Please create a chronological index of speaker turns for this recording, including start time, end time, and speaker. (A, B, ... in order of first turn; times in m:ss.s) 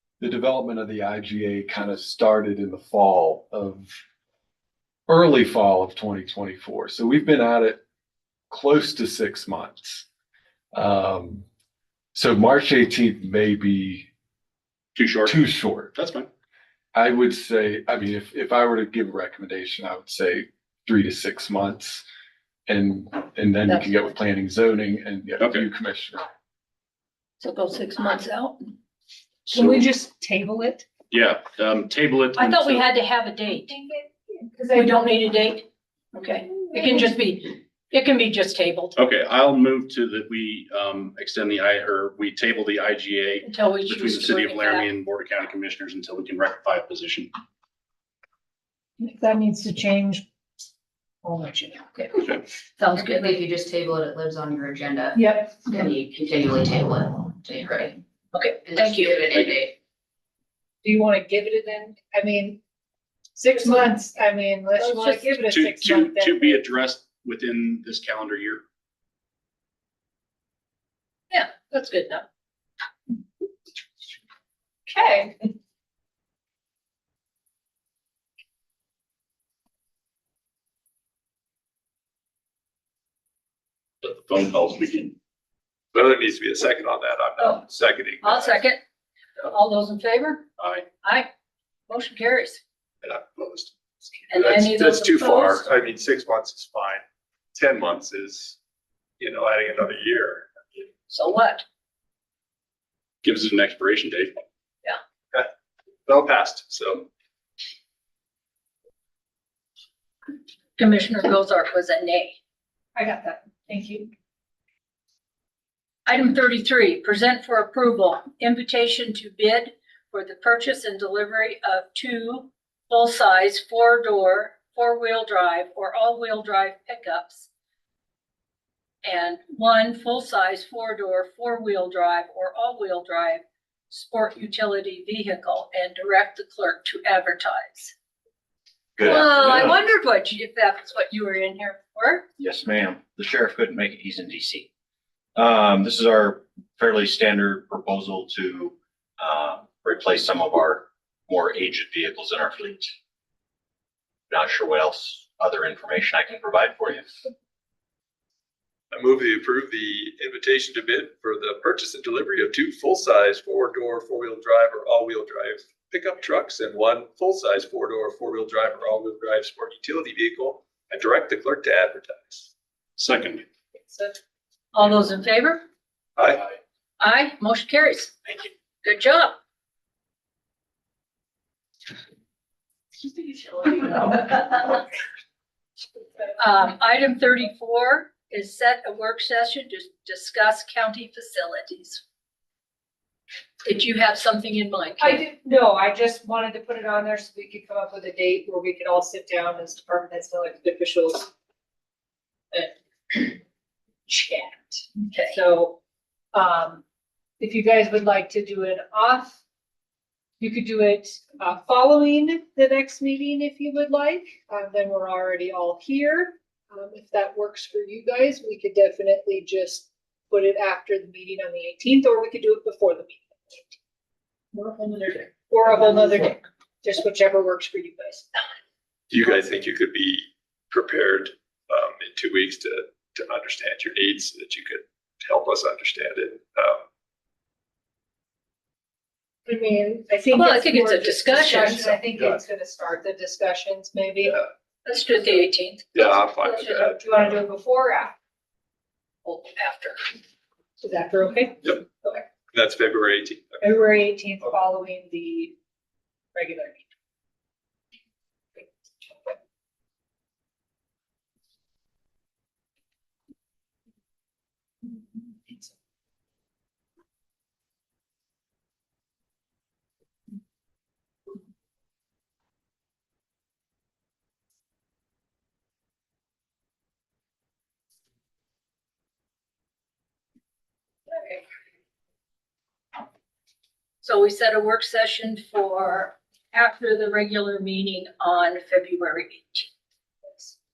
0:00.2-0:03.9 A
0:05.1-0:07.8 A
0:08.5-0:10.0 A
0:10.7-0:11.5 A
0:12.1-0:14.1 A
0:15.0-0:16.3 B
0:15.2-0:15.9 A
0:16.9-0:22.0 A
0:22.7-0:26.3 A
0:23.7-0:24.1 C
0:25.4-0:25.7 B
0:27.4-0:28.8 C
0:29.5-0:30.9 D
0:31.1-0:32.9 B
0:32.4-0:33.8 C
0:33.7-0:35.2 D
0:34.7-0:39.0 C
0:36.5-0:37.1 D
0:39.0-0:47.3 B
0:43.4-0:44.9 C
0:49.0-0:50.2 D
0:51.2-0:51.9 D
0:52.8-0:53.4 C
0:53.2-0:58.0 E
0:55.2-0:55.7 D
0:58.3-0:59.3 C
0:58.6-0:59.8 E
1:00.8-1:02.6 D
1:03.4-1:06.7 D
1:04.8-1:05.3 C
1:05.5-1:08.6 B
1:11.3-1:12.2 C
1:14.9-1:15.4 D
1:24.0-1:25.1 B
1:25.9-1:28.6 F
1:27.4-1:27.6 C
1:28.2-1:28.8 C
1:29.4-1:30.4 C
1:30.6-1:30.8 B
1:31.0-1:31.3 C
1:31.9-1:32.6 C
1:33.0-1:33.7 F
1:34.3-1:35.7 C
1:34.3-1:37.0 F
1:37.5-1:38.6 F
1:39.2-1:40.5 F
1:41.1-1:41.6 C
1:43.2-1:44.4 B
1:46.1-1:47.1 F
1:50.8-1:52.4 C
1:53.0-1:54.1 D
1:56.1-2:07.5 C
2:09.0-2:17.9 C
2:19.0-2:19.8 G
2:19.0-2:22.2 C
2:22.4-2:24.7 G
2:25.4-2:32.9 G
2:34.3-2:37.2 G
2:38.9-2:52.5 F
2:53.0-2:53.4 B
2:53.9-2:54.2 D
2:54.7-2:55.6 C
2:56.2-2:56.5 F
2:57.0-2:58.1 C
2:58.8-2:59.3 C
3:03.7-3:04.8 C
3:06.4-3:12.0 C
3:13.6-3:15.2 C
3:15.0-3:21.3 D
3:22.5-3:23.4 D
3:24.1-3:25.8 D
3:25.1-3:25.4 C
3:26.3-3:26.8 D
3:27.4-3:29.4 D
3:30.4-3:43.6 D
3:44.5-3:48.4 D
3:49.1-3:56.8 F
3:59.5-4:04.4 D
4:00.3-4:02.0 C
4:04.8-4:06.0 C
4:06.0-4:07.3 F
4:06.4-4:08.1 D
4:09.2-4:10.0 C
4:10.8-4:12.2 D
4:12.5-4:13.6 F
4:13.6-4:15.6 D
4:16.4-4:16.8 D
4:18.6-4:19.3 D
4:41.1-4:41.4 C
4:44.0-4:49.7 C